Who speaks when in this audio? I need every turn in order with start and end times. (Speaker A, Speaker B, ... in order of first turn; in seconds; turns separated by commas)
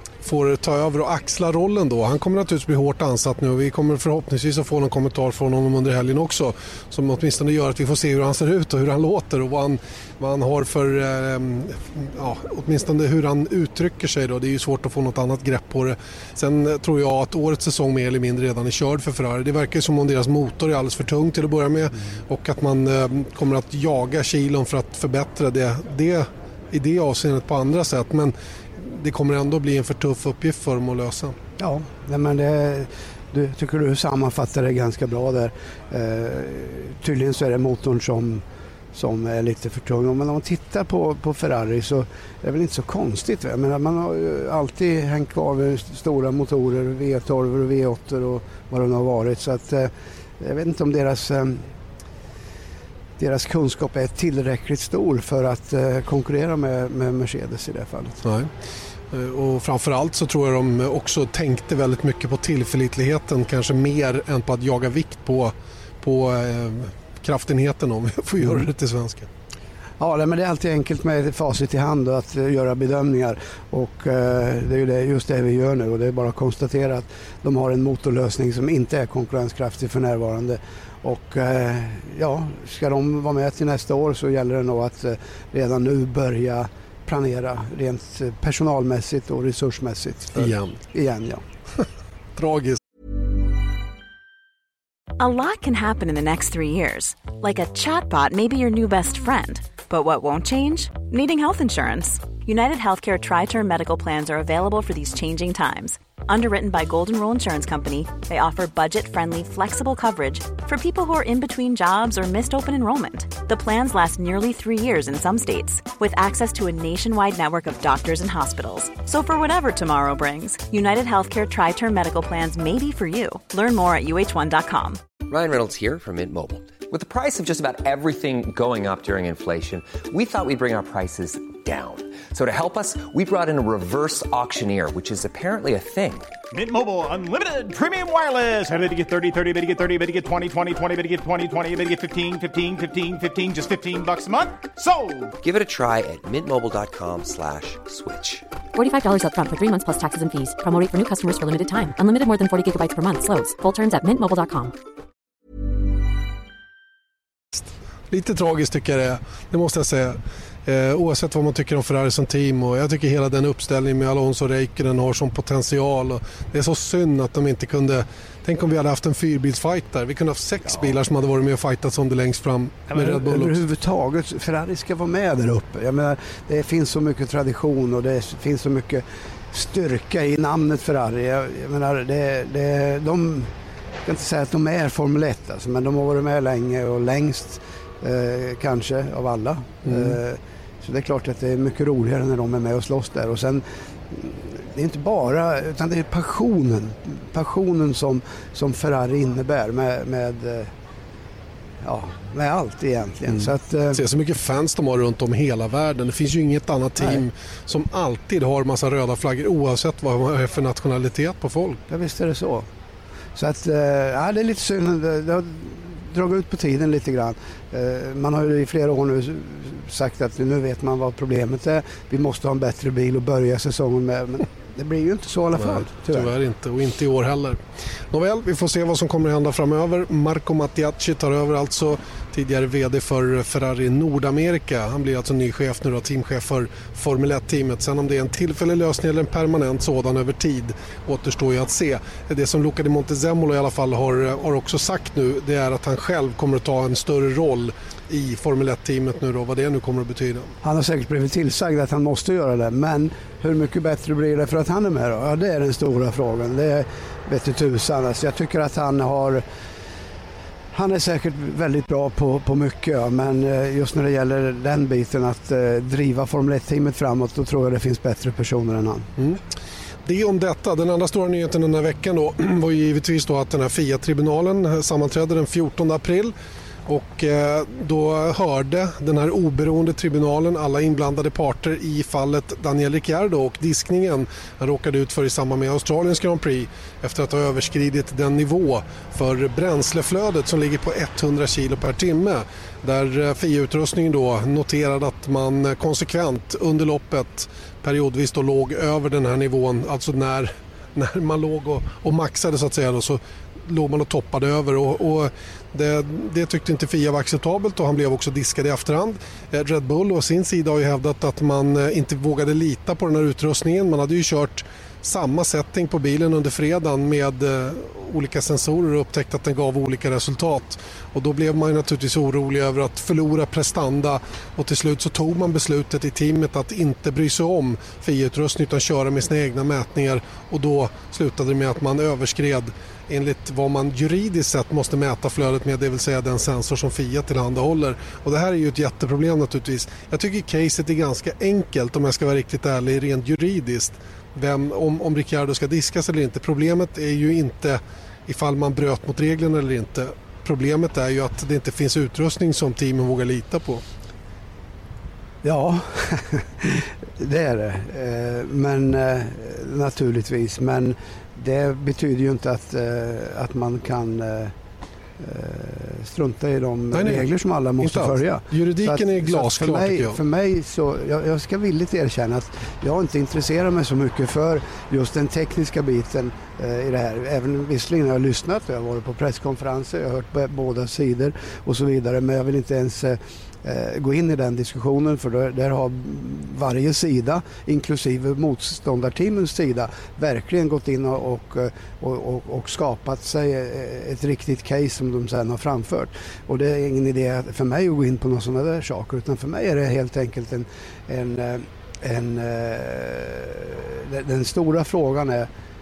Speaker A: 0.2-31.4, Speaker B: 31.6-38.4, Speaker B: 38.9-51.7, Speaker B: 53.2-58.2, Speaker A: 58.2-58.5, Speaker A: 59.1-69.3, Speaker B: 70.0-91.4, Speaker A: 90.3-90.8, Speaker A: 92.3-92.8, Speaker C: 95.2-125.0, Speaker D: 125.2-136.3, Speaker E: 136.5-145.4, Speaker D: 145.4-148.4, Speaker F: 148.7-154.8, Speaker A: 157.5-173.6, Speaker B: 172.9-183.5, Speaker B: 184.0-200.7, Speaker A: 189.8-190.2, Speaker B: 201.8-204.0, Speaker A: 203.3-211.8, Speaker B: 211.9-212.7, Speaker B: 213.3-226.3, Speaker A: 225.6-250.5, Speaker B: 250.6-259.4, Speaker B: 260.7-269.1, Speaker A: 270.0-276.3, Speaker A: 276.9-353.8, Speaker B: 355.4-364.5, Speaker B: 365.2-405.5, Speaker A: 366.9-370.2